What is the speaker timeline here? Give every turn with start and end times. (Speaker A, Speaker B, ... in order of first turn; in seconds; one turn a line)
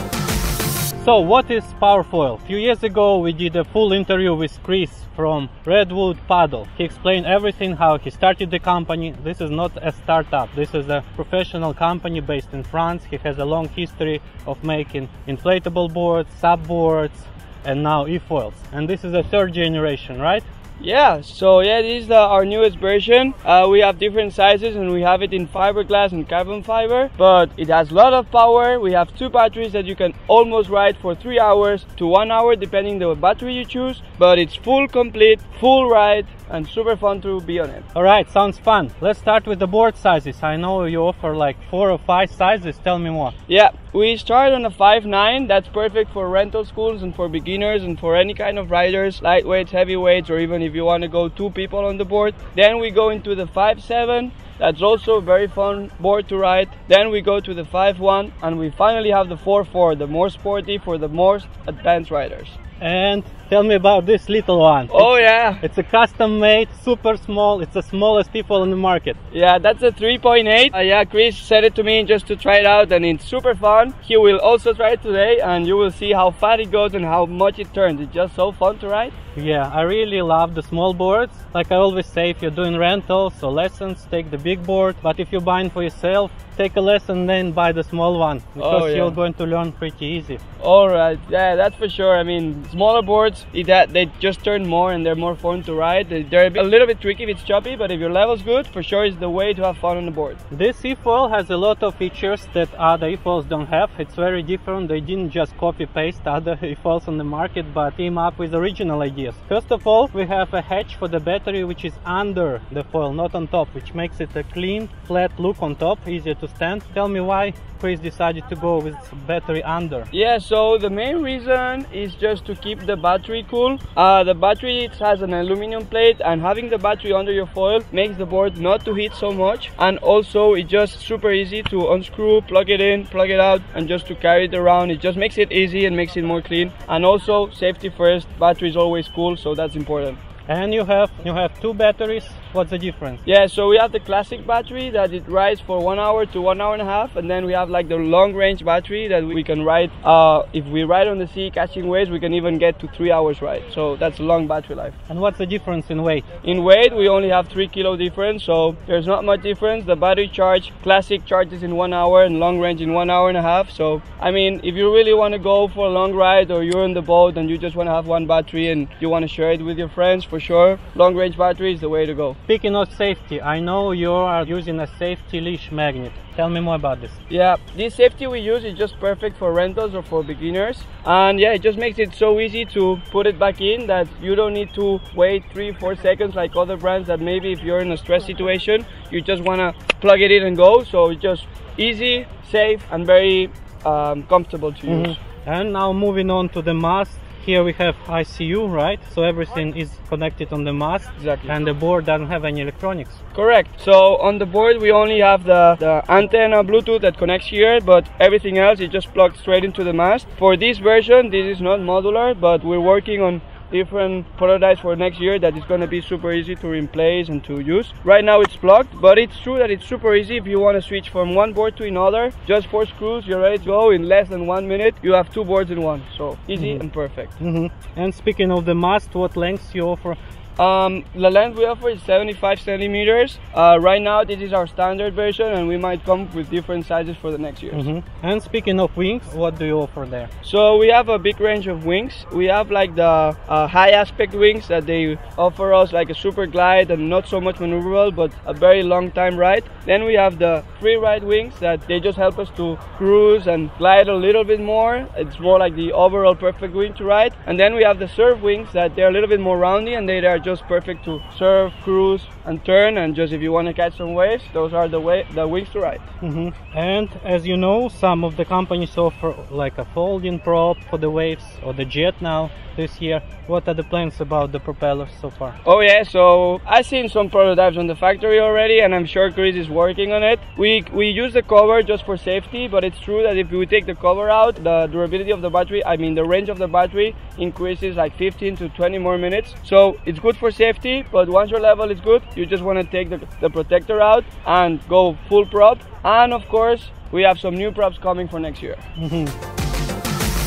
Speaker A: 1.0-20.4
Speaker B: 20.8-37.8
Speaker A: 37.9-43.3
Speaker B: 43.5-62.5
Speaker A: 62.8-69.2
Speaker B: 64.9-65.6
Speaker B: 69.3-79.1
Speaker A: 79.3-90.4
Speaker B: 88.6-89.1
Speaker B: 90.6-100.4
Speaker A: 100.5-120.1
Speaker B: 120.1-140.2
Speaker A: 140.5-143.2
Speaker B: 143.2-154.9
Speaker A: 155.1-156.2
Speaker B: 156.4-172.3
Speaker A: 172.5-177.2
Speaker B: 177.3-195.1
Speaker A: 194.9-203.2
Speaker B: 201.2-201.5
Speaker B: 203.3-227.3
Speaker A: 226.5-226.8
Speaker A: 227.4-230.2
Speaker B: 230.6-237.8
Speaker A: 237.7-240.3
Speaker B: 240.4-266.0
Speaker A: 266.2-275.6
Speaker B: 275.6-298.8
Speaker A: 298.9-299.3